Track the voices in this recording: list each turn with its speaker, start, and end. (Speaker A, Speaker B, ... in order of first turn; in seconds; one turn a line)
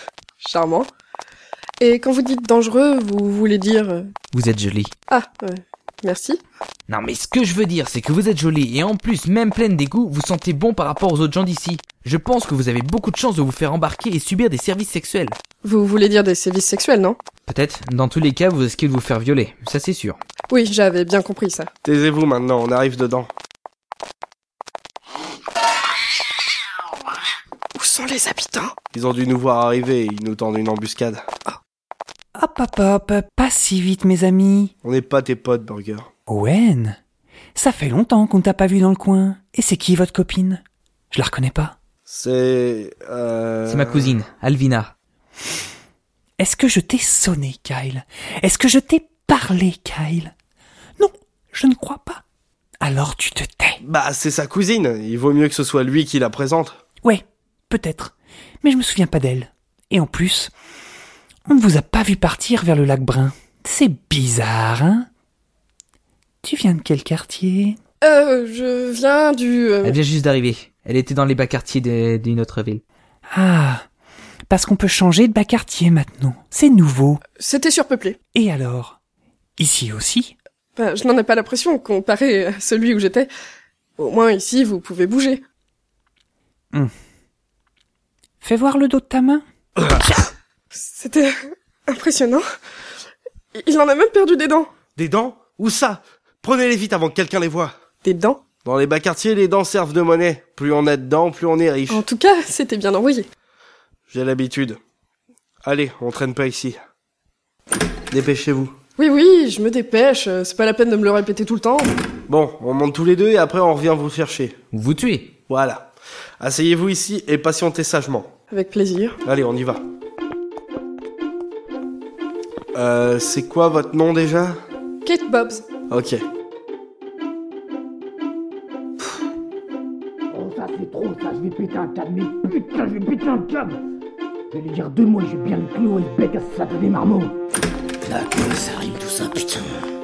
Speaker A: 0.4-0.9
Speaker A: 1.8-4.1
Speaker B: 4.3-4.9
Speaker A: 5.1-6.4
Speaker B: 6.9-15.4
Speaker A: 15.6-17.2
Speaker B: 17.5-20.2
Speaker A: 20.5-21.7
Speaker C: 21.8-23.3
Speaker A: 27.7-28.7
Speaker C: 28.9-31.2
Speaker D: 32.4-34.7
Speaker C: 34.8-36.1
Speaker D: 36.3-37.0
Speaker D: 37.5-41.7
Speaker C: 42.1-44.2
Speaker B: 43.7-44.9
Speaker D: 46.4-50.3
Speaker D: 51.0-52.2
Speaker D: 52.8-53.8
Speaker C: 53.8-56.8
Speaker D: 57.0-60.5
Speaker D: 61.5-65.1
Speaker D: 66.4-67.8
Speaker A: 68.0-70.0
Speaker B: 69.8-72.8
Speaker D: 73.3-73.8
Speaker D: 74.5-77.2
Speaker A: 77.4-78.2
Speaker D: 78.3-79.0
Speaker D: 79.6-80.3
Speaker A: 80.8-83.3
Speaker A: 84.0-85.4
Speaker D: 88.4-89.4
Speaker A: 90.7-91.3
Speaker A: 91.9-92.4
Speaker A: 93.5-94.7
Speaker C: 95.0-97.7
Speaker A: 98.0-98.4
Speaker C: 98.6-102.0
Speaker A: 101.9-103.3
Speaker C: 104.1-104.8
Speaker C: 105.6-106.8
Speaker C: 108.1-108.7
Speaker A: 109.0-111.9
Speaker C: 112.3-114.5
Speaker B: 114.7-115.3
Speaker C: 115.5-115.9
Speaker C: 116.4-118.3
Speaker A: 118.5-119.2
Speaker C: 119.2-119.8
Speaker C: 122.7-124.6
Speaker A: 125.0-125.7
Speaker C: 125.9-126.2
Speaker E: 130.3-133.8
Speaker E: 134.5-137.3
Speaker E: 138.0-139.8